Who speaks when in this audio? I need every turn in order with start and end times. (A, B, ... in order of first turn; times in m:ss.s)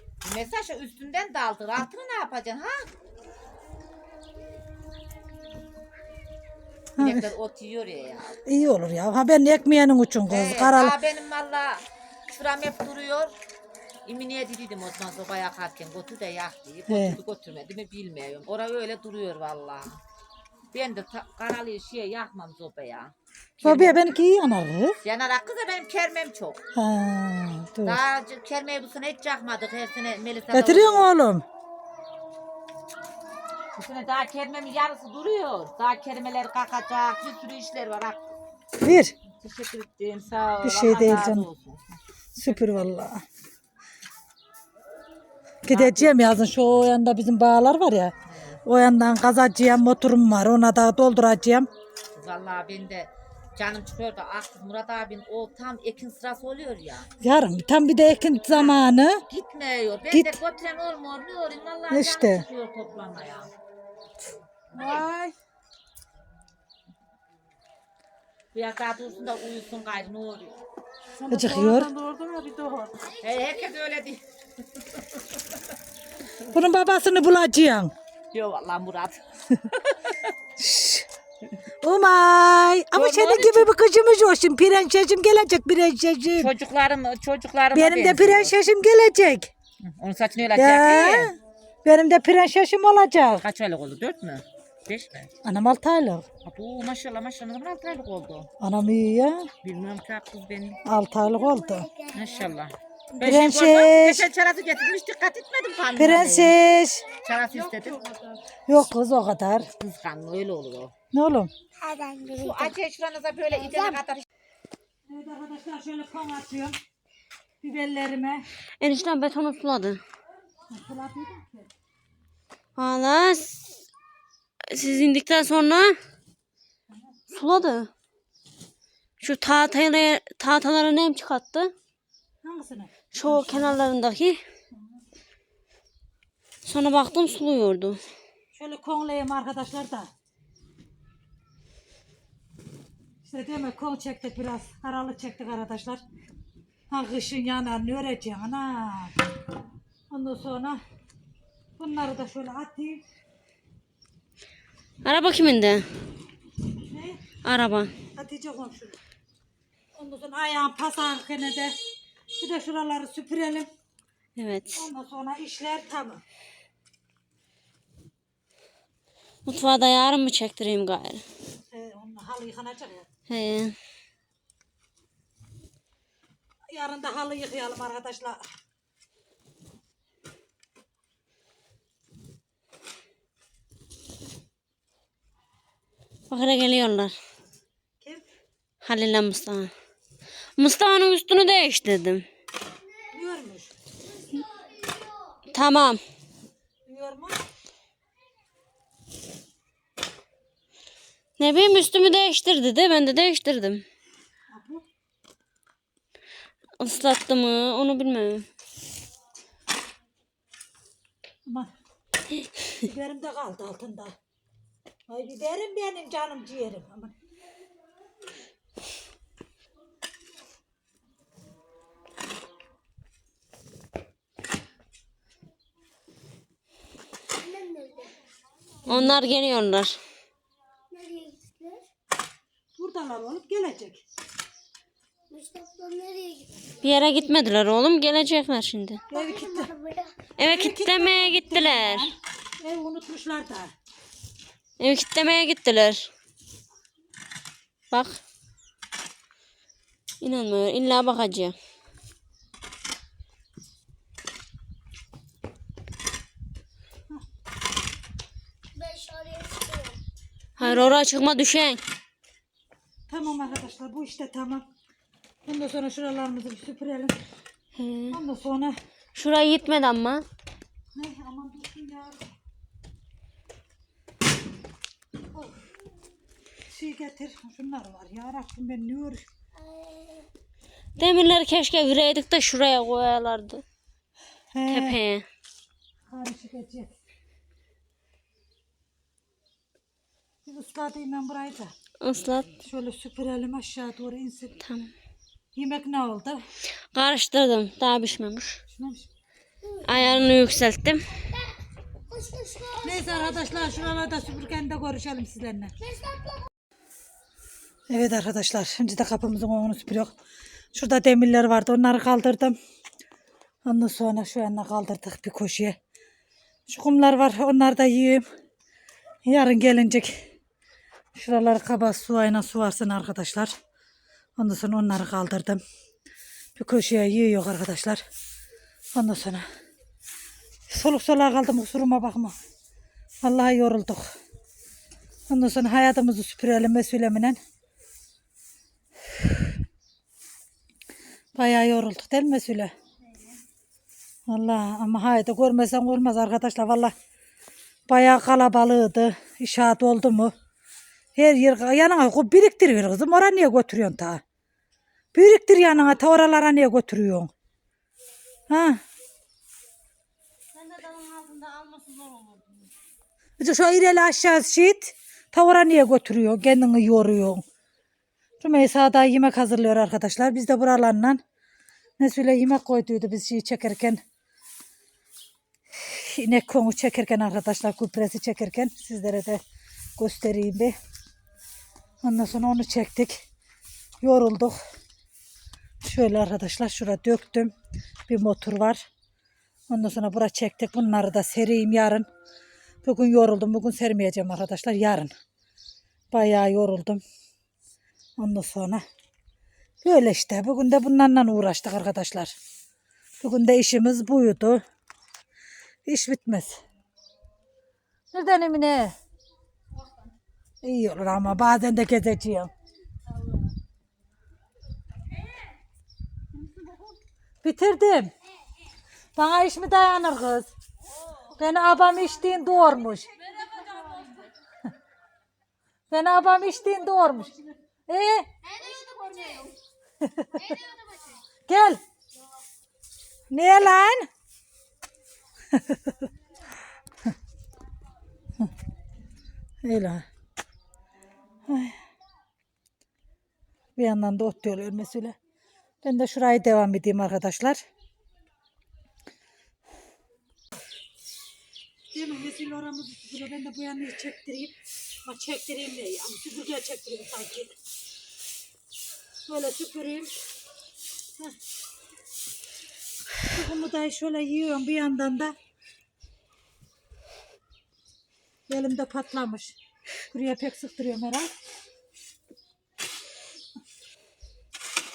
0:00.2-0:02.9 A
0:07.0-0:07.3 B
0:07.0-0:08.4 A
0:08.4-0:11.0 B
0:10.3-0:13.3 A
0:14.0-0:20.0 A
0:16.9-0:17.2 B
0:20.7-0:24.0 A
0:23.6-0:25.0 B
0:25.0-0:26.6 A
0:26.7-0:28.0 B
0:27.8-0:31.0 A
0:30.5-0:31.4 B
0:33.8-0:38.2 A
0:38.8-0:39.1 B
0:39.3-0:41.9 A
0:40.6-0:41.4 B
0:42.4-0:43.2 B
0:42.4-0:42.7 A
0:45.6-0:48.1 B
0:45.7-0:46.1 A
0:48.3-0:48.6 A
0:48.6-0:51.7 B
0:52.1-0:57.1 A
0:57.2-0:59.2 B
0:58.5-1:03.5 A
1:00.1-1:00.4 B
1:01.9-1:02.4 B
1:04.7-1:05.0 A
1:04.7-1:05.3 C
1:08.5-1:10.6 A
1:11.2-1:13.1 C
1:11.3-1:11.9 B
1:13.2-1:14.2 A
1:16.5-1:17.9 B
1:18.3-1:20.2 A
1:20.6-1:21.1 B
1:21.8-1:26.5 B
1:22.9-1:23.7 A
1:26.4-1:28.5 A
1:27.7-1:29.5 B
1:29.8-1:31.3 A
1:30.6-1:33.4 B
1:33.4-1:35.3 A
1:35.4-1:36.3 B
1:36.4-1:38.5 A
1:38.6-1:39.5 B
1:39.6-1:40.8 A
1:40.8-1:41.9 B
1:41.2-1:42.5 D
1:42.1-1:46.6 A
1:43.2-1:44.2 B
1:46.0-1:47.1 B
1:47.2-1:48.0 A
1:47.5-1:48.4 C
1:48.7-1:49.7 B
1:49.8-1:50.9 A
1:51.1-1:51.5 B
1:51.8-1:52.8 D
1:52.4-1:54.2 A
1:53.5-1:54.0 D
1:55.1-1:56.8 B
1:57.6-1:58.4 B
1:58.8-2:00.0 E
2:00.7-2:01.7 B
2:02.7-2:03.7 E
2:04.7-2:06.0 E
2:07.3-2:07.9 E
2:09.2-2:11.7 E
2:12.4-2:13.8 B
2:13.1-2:14.4 E
2:14.7-2:15.0 B
2:16.6-2:18.0 E
2:18.5-2:20.1 B
2:23.2-2:26.0 B
2:26.9-2:29.2 B
2:30.1-2:30.8 B
2:31.8-2:33.0 B
2:35.0-2:35.9 E
2:36.9-2:37.2 B
2:37.4-2:37.9 E
2:38.1-2:39.0 B
2:40.0-2:41.8 B
2:42.4-2:43.7 B
2:44.4-2:44.8 E
2:44.7-2:46.2 B
2:49.4-2:51.2 E
2:51.7-2:53.1 B
2:53.3-2:53.7 E
2:56.7-2:58.4 B
3:06.3-3:07.2 E
3:08.8-3:09.7 E
3:10.6-3:12.2 E
3:13.1-3:13.7 B
3:14.3-3:15.4 D
3:15.5-3:16.0 E
3:16.8-3:17.4 B
3:21.4-3:23.8 E
3:24.5-3:24.8 B
3:26.8-3:28.4 E
3:32.8-3:34.1 B
3:35.1-3:37.1 B
3:47.4-3:48.1 D
3:48.8-3:49.2 B
3:48.8-3:50.0 E
3:50.9-3:51.8 D
3:52.8-3:54.0 B
3:55.3-3:56.5 D
3:56.8-3:59.0 E
3:59.1-3:59.7 B
3:59.1-4:00.2 D
4:00.4-4:02.1 E
4:00.4-4:03.7 B
4:04.8-4:06.1 E
4:07.9-4:08.2 E
4:10.2-4:11.5 E
4:18.7-4:20.0 D
4:20.6-4:21.8 E
4:20.6-4:21.0 B
4:23.1-4:24.6 B
4:25.4-4:27.2 B
4:27.7-4:28.2 E
4:28.1-4:28.8 B
4:29.1-4:30.2 E
4:30.9-4:32.2 B
4:35.3-4:35.6 B
4:36.7-4:39.2 B
4:39.6-4:40.2 D
4:41.0-4:43.6 E
4:44.5-4:45.0 B
4:44.7-4:45.2 E
4:46.1-4:46.9 B
4:50.4-4:51.7 B
4:52.0-4:52.5 E
4:52.6-4:54.6 B
4:54.6-4:54.9 E
4:55.5-4:56.4 B
4:56.9-4:58.6 E
4:58.7-4:59.1 B
4:59.8-5:01.1 E
5:02.1-5:04.2 D
5:02.8-5:05.7 B
5:05.8-5:06.4 D
5:07.9-5:10.1 B
5:10.7-5:12.6 B
5:13.6-5:15.8 B
5:16.7-5:18.2 B
5:19.2-5:20.2 B
5:21.1-5:23.5 B
5:24.4-5:25.6 B
5:26.6-5:28.0 B
5:29.0-5:29.4 B
5:30.7-5:32.4 B
5:33.2-5:34.1 B
5:35.3-5:37.4 B
5:41.3-5:42.7 B
5:44.3-5:46.9 B
5:47.9-5:50.3 B
5:51.2-5:54.2 B
5:55.1-5:57.3 B
5:58.5-5:58.8 B
6:00.5-6:02.7 E
6:03.4-6:07.4 B
6:08.4-6:11.2 B
6:12.0-6:14.0 B
6:15.8-6:19.4 B
6:20.0-6:20.8 B
6:22.0-6:23.2 B
6:24.0-6:24.6 B
6:25.8-6:27.5 B
6:28.1-6:28.8 B
6:29.7-6:32.1 B
6:32.8-6:35.1 B
6:36.1-6:37.0 B
6:38.2-6:38.8 B
6:39.8-6:42.3 B
6:43.2-6:44.6 B
6:45.8-6:46.6 B
6:48.1-6:48.9 B
6:50.6-6:52.5 B
6:57.4-6:58.1 B
6:59.2-7:00.5 B
7:01.4-7:03.1 B
7:03.6-7:04.0 E
7:05.9-7:07.3 B
7:07.9-7:08.3 B
7:08.4-7:09.5 D
7:10.0-7:10.5 B
7:10.4-7:11.1 D
7:11.4-7:11.8 B
7:13.3-7:14.1 B
7:15.5-7:16.1 B
7:19.6-7:20.0 B
7:21.5-7:21.8 B
7:23.8-7:25.2 B
7:25.8-7:27.6 B
7:31.9-7:37.6 B
7:39.3-7:40.1 B
7:43.2-7:45.4 B
7:48.5-7:49.6 B
7:50.1-7:51.3 B